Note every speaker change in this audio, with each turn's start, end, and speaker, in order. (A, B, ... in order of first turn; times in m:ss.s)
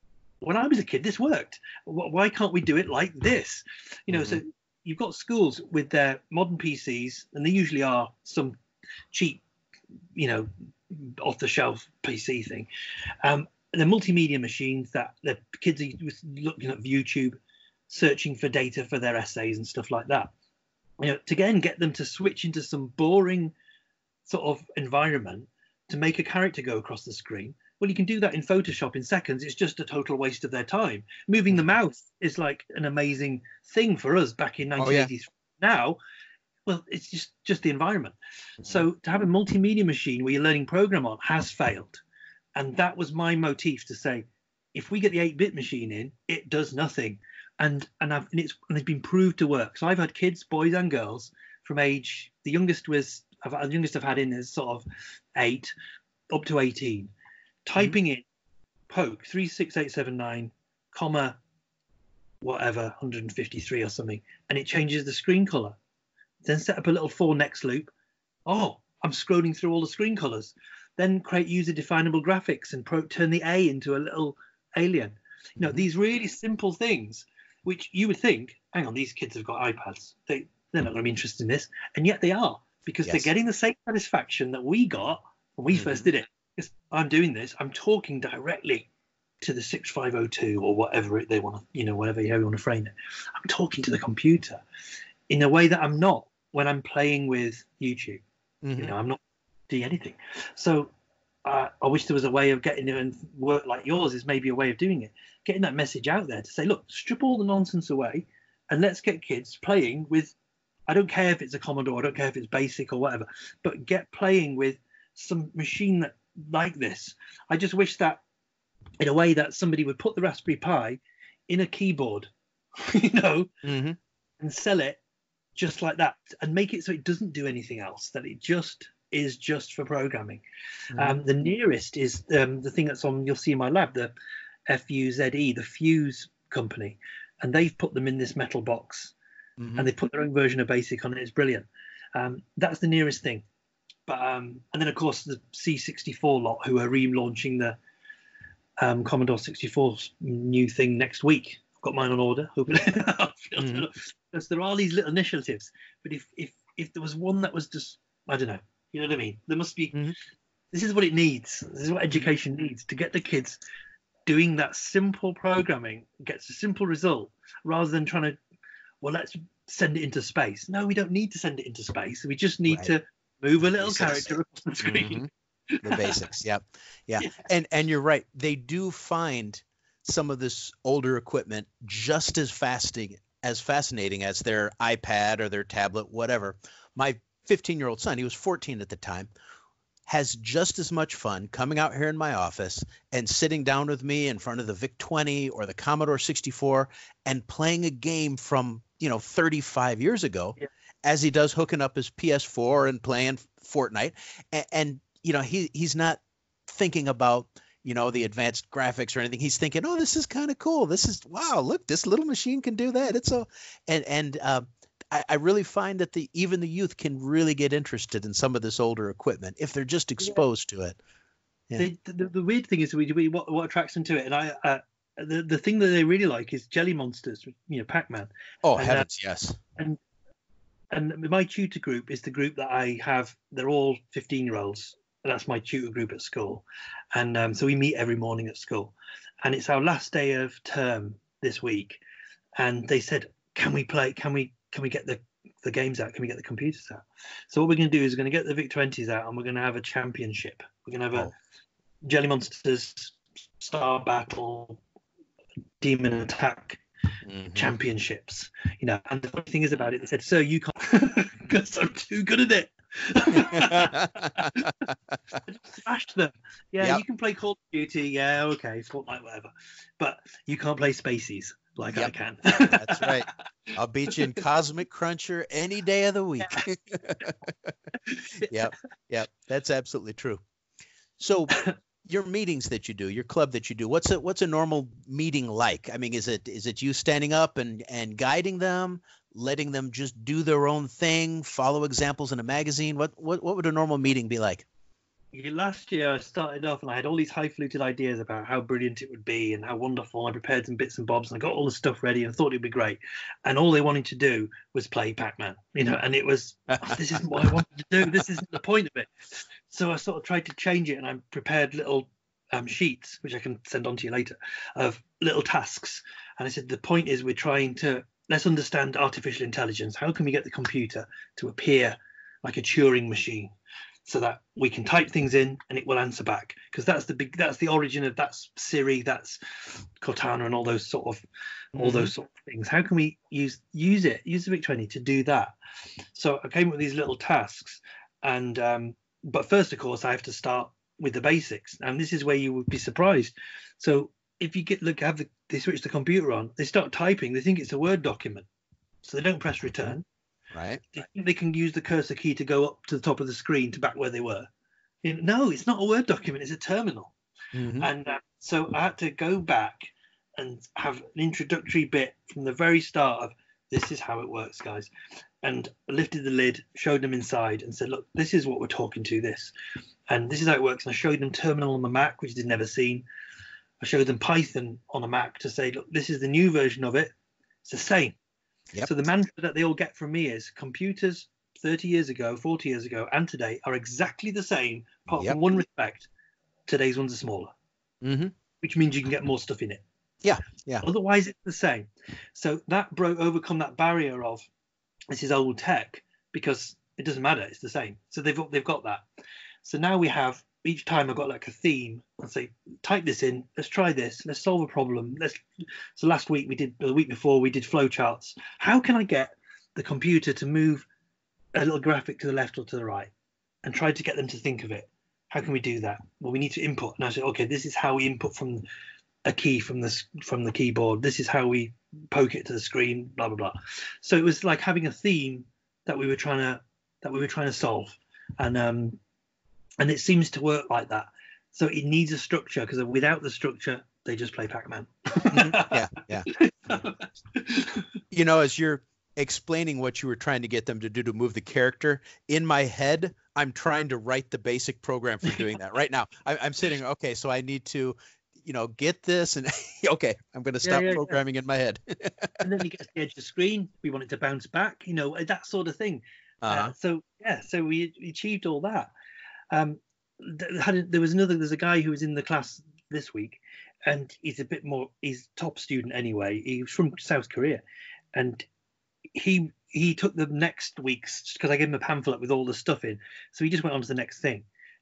0:00.4-0:08.6 A
0:04.1-0:04.4 B
0:09.1-0:09.4 A
0:10.2-0:12.7 A
0:13.2-0:17.4 A
0:17.9-0:20.3 A
0:21.0-0:23.5 A
0:24.2-0:36.0 A
0:34.8-0:35.1 B
0:36.6-0:42.0 A
0:42.6-0:55.7 A
0:56.3-0:57.1 A
0:57.6-0:58.2 A
0:58.9-1:01.4 A
1:02.4-1:05.8 A
1:06.4-1:07.9 A
1:08.4-1:28.9 A
1:15.6-1:15.8 B
1:23.0-1:23.3 B
1:25.7-1:26.1 B
1:29.4-1:34.6 A
1:35.3-1:38.2 A
1:38.6-1:38.9 B
1:38.8-1:40.9 A
1:41.4-1:50.3 A
1:50.9-1:58.2 A
1:59.0-2:03.5 A
2:03.6-2:04.0 B
2:04.4-2:05.0 A
2:05.6-2:10.4 A
2:10.9-2:11.2 B
2:11.0-2:14.1 A
2:14.7-2:19.1 A
2:19.6-2:19.9 B
2:19.8-2:23.4 A
2:24.1-2:27.8 A
2:28.8-2:40.0 A
2:33.6-2:33.9 B
2:40.7-2:43.6 A
2:44.2-2:48.4 A
2:49.0-2:56.2 A
2:53.8-2:55.3 B
2:55.8-3:09.3 B
2:57.2-2:57.4 A
3:10.1-3:41.0 B
3:41.8-3:49.1 A
3:48.6-3:49.6 B
3:50.9-4:02.0 A
4:02.6-4:11.3 A
4:12.0-4:14.8 A
4:15.8-4:16.8 A
4:17.2-4:17.7 B
4:17.5-4:24.7 A
4:23.3-4:25.3 B
4:25.4-4:33.2 A
4:31.9-4:37.7 B
4:38.0-4:38.5 A
4:38.4-4:40.4 B
4:41.2-4:54.6 B
4:55.3-5:09.1 A
5:06.8-5:07.4 B
5:09.7-5:23.5 A
5:24.0-5:35.5 A
5:31.8-5:32.1 B
5:36.1-5:48.5 A
5:49.0-5:50.0 A
5:50.5-5:50.8 B
5:50.9-5:54.5 A
5:55.0-5:57.1 A
5:57.5-5:57.9 B
5:57.8-6:04.9 A
6:05.4-6:09.5 A
6:10.1-6:13.0 A
6:13.8-6:17.1 A
6:17.6-6:18.2 A
6:18.8-6:26.1 A
6:26.7-6:27.5 A
6:28.0-6:28.3 B
6:28.6-6:29.8 A
6:30.2-6:30.8 B
6:30.8-6:34.5 A
6:35.1-6:39.0 A
6:39.6-6:45.4 A
6:46.0-6:50.8 A
6:51.5-6:53.1 A
6:53.6-6:58.6 A
6:59.2-7:09.0 A
7:09.8-7:17.8 A
7:15.3-7:16.8 B
7:18.1-7:32.4 B
7:30.6-7:31.2 A
7:32.4-7:38.9 A
7:36.4-7:36.7 B
7:39.5-7:47.6 A
7:48.1-7:48.4 A
7:49.1-7:54.4 A